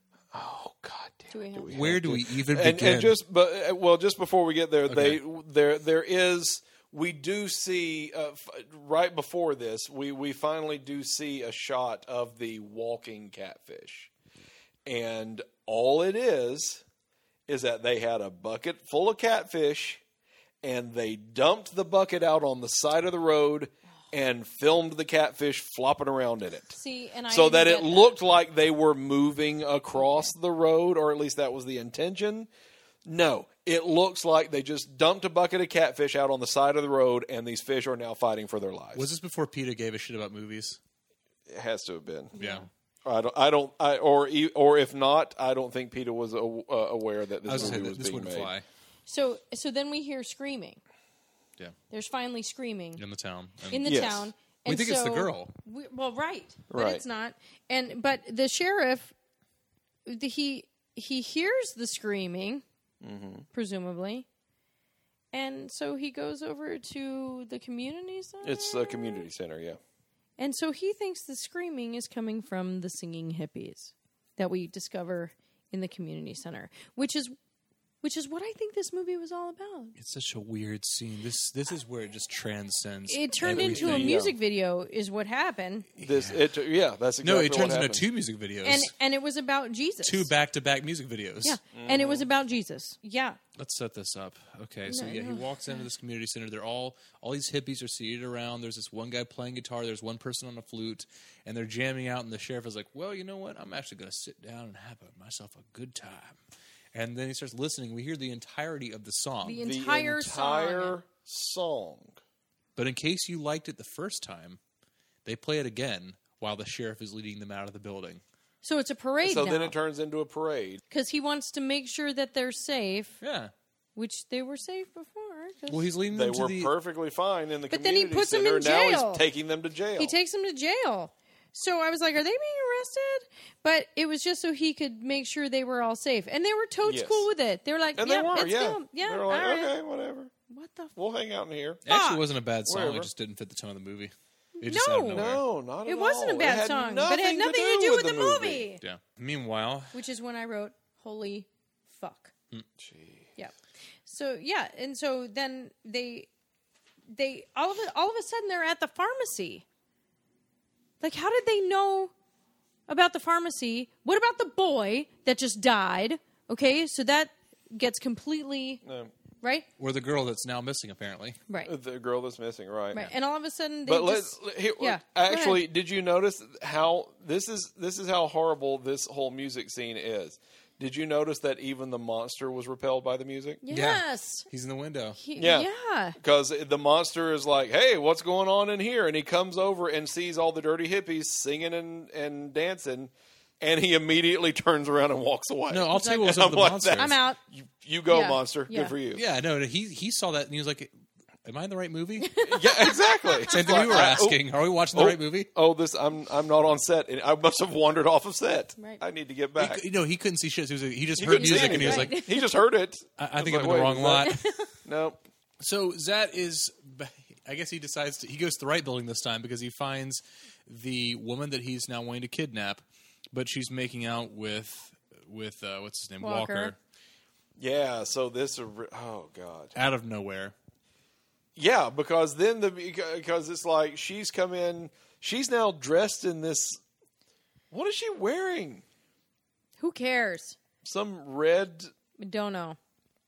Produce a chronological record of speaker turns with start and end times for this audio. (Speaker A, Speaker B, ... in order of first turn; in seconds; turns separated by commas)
Speaker A: 0.3-14.1, Speaker B: 1.3-1.7, Speaker C: 1.7-3.1, Speaker C: 4.9-5.2, Speaker A: 14.8-16.8, Speaker A: 17.5-20.0, Speaker A: 20.6-26.8, Speaker B: 26.7-28.2, Speaker A: 27.3-32.5, Speaker B: 29.9-30.3, Speaker A: 33.0-39.1, Speaker C: 39.0-40.8, Speaker A: 41.5-42.3, Speaker B: 42.3-42.7, Speaker C: 42.4-42.6, Speaker A: 43.0-48.5, Speaker C: 47.4-48.6, Speaker B: 49.1-50.8, Speaker B: 51.9-53.0, Speaker C: 53.0-53.9, Speaker B: 53.7-59.1, Speaker A: 53.8-54.3, Speaker C: 54.6-55.5, Speaker A: 56.7-57.0, Speaker B: 60.1-62.6, Speaker A: 63.0-63.5, Speaker B: 63.5-64.2, Speaker B: 65.3-69.3, Speaker A: 68.4-69.8, Speaker B: 70.4-77.3, Speaker B: 78.0-79.9, Speaker C: 80.0-84.1, Speaker B: 83.1-85.9, Speaker A: 83.5-84.3, Speaker C: 86.0-86.4, Speaker A: 86.0-88.0, Speaker C: 87.2-88.9, Speaker B: 88.6-90.3, Speaker C: 90.0-91.6, Speaker B: 91.4-93.4, Speaker A: 91.7-92.3, Speaker C: 93.5-106.4, Speaker B: 94.9-95.8, Speaker C: 106.9-109.6, Speaker B: 109.4-111.0, Speaker A: 109.6-112.2, Speaker C: 112.8-114.6, Speaker C: 115.2-118.2, Speaker B: 118.6-119.7, Speaker A: 119.2-120.8, Speaker B: 120.9-123.2, Speaker C: 123.2-123.5, Speaker B: 124.0-125.9, Speaker C: 125.7-126.7, Speaker A: 126.1-130.1, Speaker B: 127.7-129.2, Speaker B: 130.0-139.7, Speaker A: 136.8-137.3, Speaker A: 138.0-140.3, Speaker B: 140.5-140.9, Speaker A: 140.9-141.8, Speaker C: 141.8-145.4, Speaker B: 141.9-142.2, Speaker A: 142.6-143.1, Speaker B: 144.6-145.3, Speaker A: 145.1-148.6, Speaker B: 145.8-148.8, Speaker C: 148.8-149.9, Speaker B: 149.9-152.3, Speaker A: 152.8-153.3, Speaker B: 154.1-156.3, Speaker B: 157.1-159.6, Speaker B: 161.0-162.1, Speaker B: 162.9-168.8, Speaker A: 168.8-169.1, Speaker B: 169.4-169.7, Speaker C: 169.8-171.4, Speaker A: 171.6-173.1, Speaker B: 172.9-175.6, Speaker A: 173.8-183.6, Speaker B: 183.6-184.4, Speaker C: 183.7-185.2, Speaker B: 185.2-186.2, Speaker A: 185.4-185.7, Speaker A: 186.2-199.2, Speaker C: 195.7-197.2, Speaker B: 195.9-196.4, Speaker B: 197.0-197.4, Speaker B: 198.1-198.9, Speaker C: 199.1-200.9, Speaker C: 201.4-202.3, Speaker B: 202.2-204.1, Speaker A: 202.4-204.4, Speaker C: 203.5-205.5, Speaker A: 204.9-209.8, Speaker C: 209.6-212.2, Speaker A: 211.2-214.3, Speaker B: 211.3-212.5, Speaker C: 213.2-214.4, Speaker B: 214.2-214.7, Speaker A: 214.8-215.2, Speaker C: 215.6-226.8, Speaker B: 226.2-226.7, Speaker A: 227.6-229.7, Speaker C: 229.7-230.5, Speaker A: 231.6-236.8, Speaker A: 237.7-238.8, Speaker B: 239.8-240.6, Speaker A: 240.8-241.9, Speaker B: 242.2-242.8